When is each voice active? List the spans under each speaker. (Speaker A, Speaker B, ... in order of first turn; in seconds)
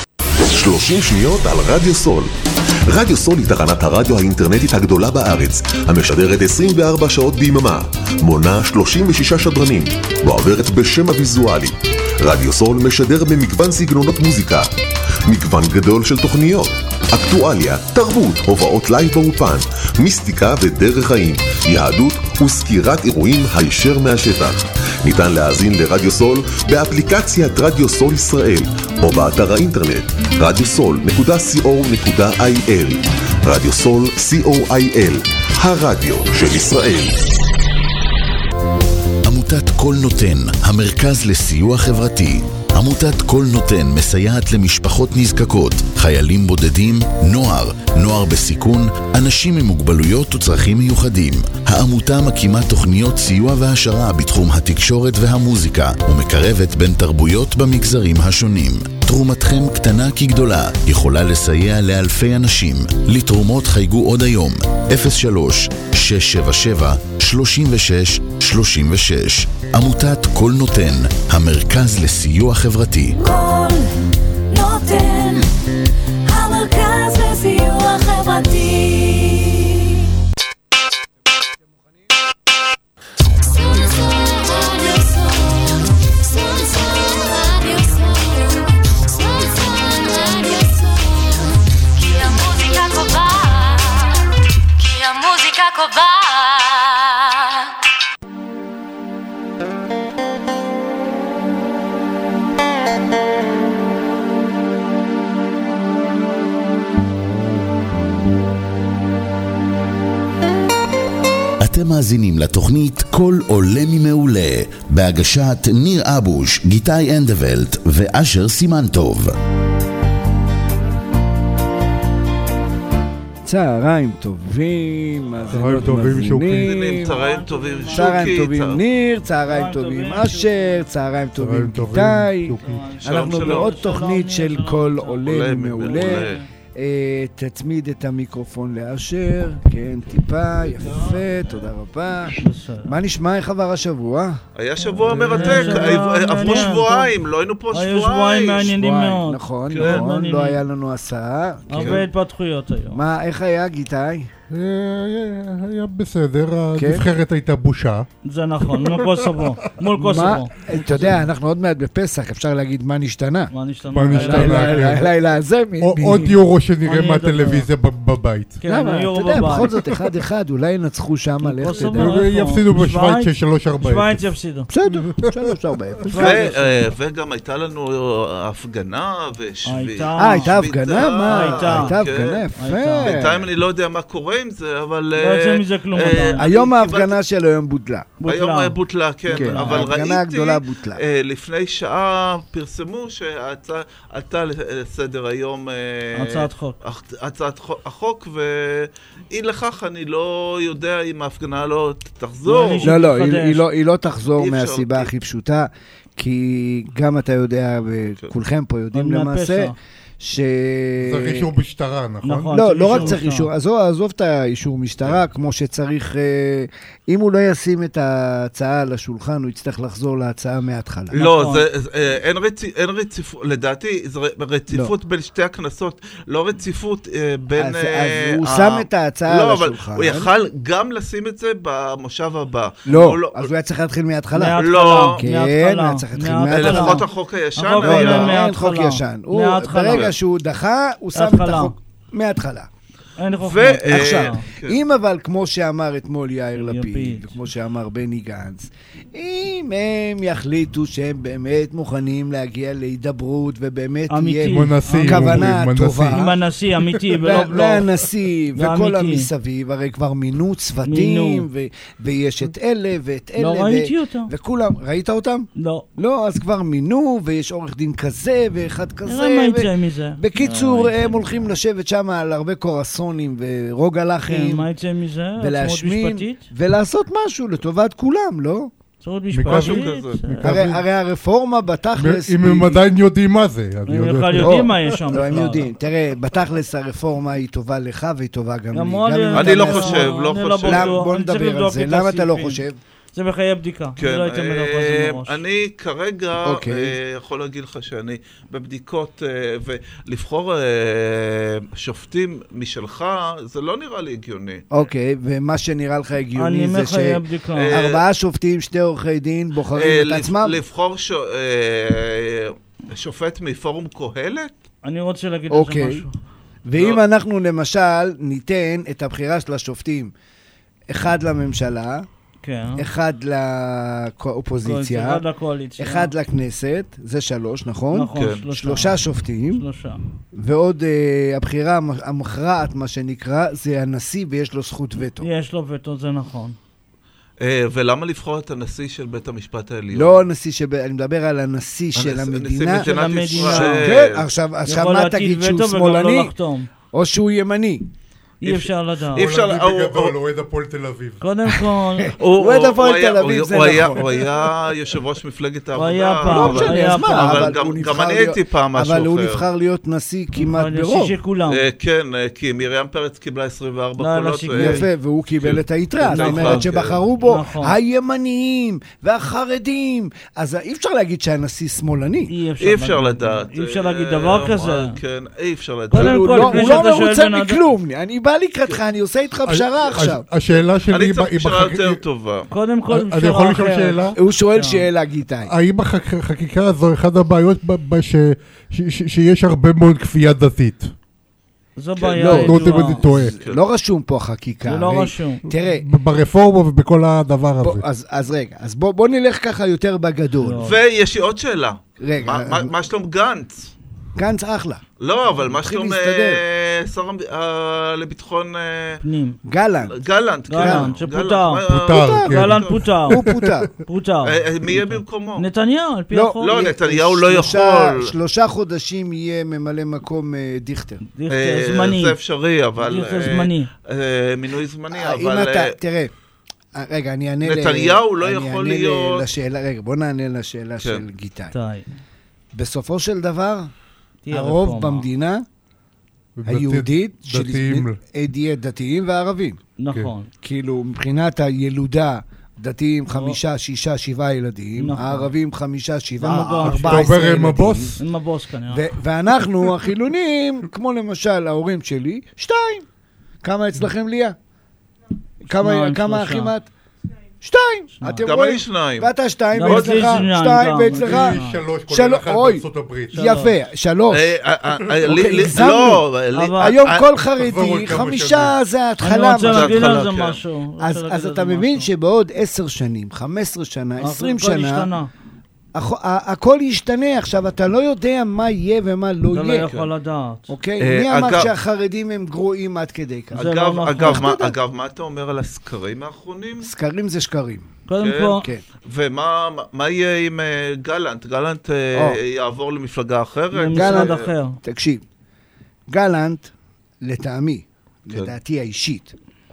Speaker A: 0.4-2.3, 2.9-14.7, 15.3-37.2
Speaker B: 39.2-73.2, 111.6-119.4
Speaker C: 73.2-74.0, 74.5-75.5, 76.2-80.1, 83.4-97.7
Speaker D: 123.5-127.2, 127.9-147.1, 148.6-152.1, 152.9-154.3, 156.8-157.1, 159.9-163.5, 164.1-166.4, 168.7-172.2, 174.7-176.5, 180.2-183.5, 186.4-188.1, 189.3-191.0, 202.8-211.5, 212.5-221.1, 227.6-230.3, 232.9-237.1, 237.8-242.7, 243.9-256.4, 257.2-274.7, 275.4-278.7, 280.4-282.8, 284.3-292.8, 296.4-296.9, 304.7-310.6, 315.5-316.1, 316.7-320.1, 320.9-322.1, 322.8-325.2, 325.8-329.6, 330.4-335.3, 339.9-346.3, 346.9-347.9, 352.2-354.5, 356.2-361.1, 364.5-372.3, 375.9-380.2, 384.2-385.5, 392.2-395.8, 397.6-400.7, 402.0-402.7, 404.2-404.8, 405.4-406.4, 409.4-410.0, 410.5-410.9, 411.9-412.4, 413.1-413.7, 416.1-421.0, 424.9-426.1, 426.7-431.5, 432.5-433.7, 434.3-435.4, 436.4-439.6, 440.4-448.0, 448.7-452.9, 453.4-454.4, 455.4-456.7, 457.4-461.4, 461.9-464.3, 465.0-470.0, 470.8-474.9, 475.7-479.7, 480.5-484.6, 486.6-488.6, 491.9-492.2, 493.7-495.0, 495.9-499.1
Speaker E: 125.5-126.8, 131.4-132.8, 154.5-158.1, 158.7-159.3, 163.9-165.1, 165.8-168.6, 171.7-174.2, 211.0-212.5, 254.5-256.2, 279.3-280.8, 282.0-285.0, 349.1-351.2, 379.5-382.0, 382.9-384.2, 385.5-390.9, 392.2-393.4, 395.6-397.8, 411.7-413.6, 436.4-438.0, 446.7-448.0, 460.8-463.2, 467.4-468.6
Speaker F: 126.5-128.8, 133.1-133.7, 135.2-136.4, 144.6-148.7, 149.7-150.1, 151.7-152.0, 176.2-182.4, 183.0-187.2, 188.2-202.9, 204.4-205.1, 221.1-233.5, 234.6-235.2, 236.5-238.4, 239.9-240.1, 243.4-244.8, 279.4-280.2, 289.3-291.0, 294.0-304.7, 307.6-308.0, 309.8-314.5, 316.8-317.0, 328.2-328.4, 337.4-340.1, 341.9-344.2, 348.4-350.2, 352.2-359.4, 361.5-364.9, 365.4-367.0, 372.6-376.7, 380.9-382.5, 400.6-403.7, 405.0-409.0, 409.9-412.8, 414.2-415.5, 416.4-418.1, 421.3-425.8, 427.4-429.2, 458.2-459.1, 459.6-460.2, 464.1-467.1, 469.4-470.4, 480.8-481.5, 483.4-486.7, 488.0-494.3
Speaker G: 127.0-128.4, 129.5-130.8, 132.6-136.5, 142.4-142.9, 145.1-146.9, 147.7-150.6, 151.7-153.0, 158.2-161.2, 163.5-165.0, 166.8-167.7, 168.6-169.8, 171.4-174.7, 176.1-176.7, 179.7-182.0, 182.6-183.2, 185.2-186.4, 188.2-188.8, 189.3-189.9, 196.2-196.8, 202.5-203.7, 208.9-209.8, 212.2-213.5, 221.2-221.6, 234.3-237.1, 237.6-240.1, 241.2-241.7, 243.2-244.4, 246.6-247.4, 254.1-255.5, 256.1-257.9, 258.6-259.3, 260.9-261.4, 263.4-264.3, 265.6-265.9, 269.1-271.5, 274.3-276.5, 279.0-280.7, 283.9-285.7, 288.7-292.6, 293.1-295.4, 306.4-307.8, 314.8-316.1, 322.4-322.8, 324.6-326.1, 327.9-329.0, 329.5-330.0, 335.2-336.6, 342.8-343.9, 344.7-346.7, 348.4-349.2, 351.2-352.2, 355.8-357.5, 360.4-361.6, 364.0-364.9, 366.1-366.7, 367.2-367.8, 372.3-375.0, 375.9-377.6, 382.5-384.8, 391.8-393.0, 394.7-395.4, 400.4-400.8, 409.0-409.4, 410.5-411.6, 412.3-413.2, 413.9-416.5, 421.1-422.2, 422.8-423.7, 431.5-431.9, 434.2-435.1, 439.8-440.3, 443.1-443.4, 444.8-445.3, 446.2-447.2, 448.0-448.9, 455.5-456.5, 457.9-458.3, 459.6-461.6, 463.1-463.5, 466.4-466.8, 469.0-471.9, 474.0-475.1, 479.3-480.5, 483.4-484.2, 487.9-488.4, 493.5-494.6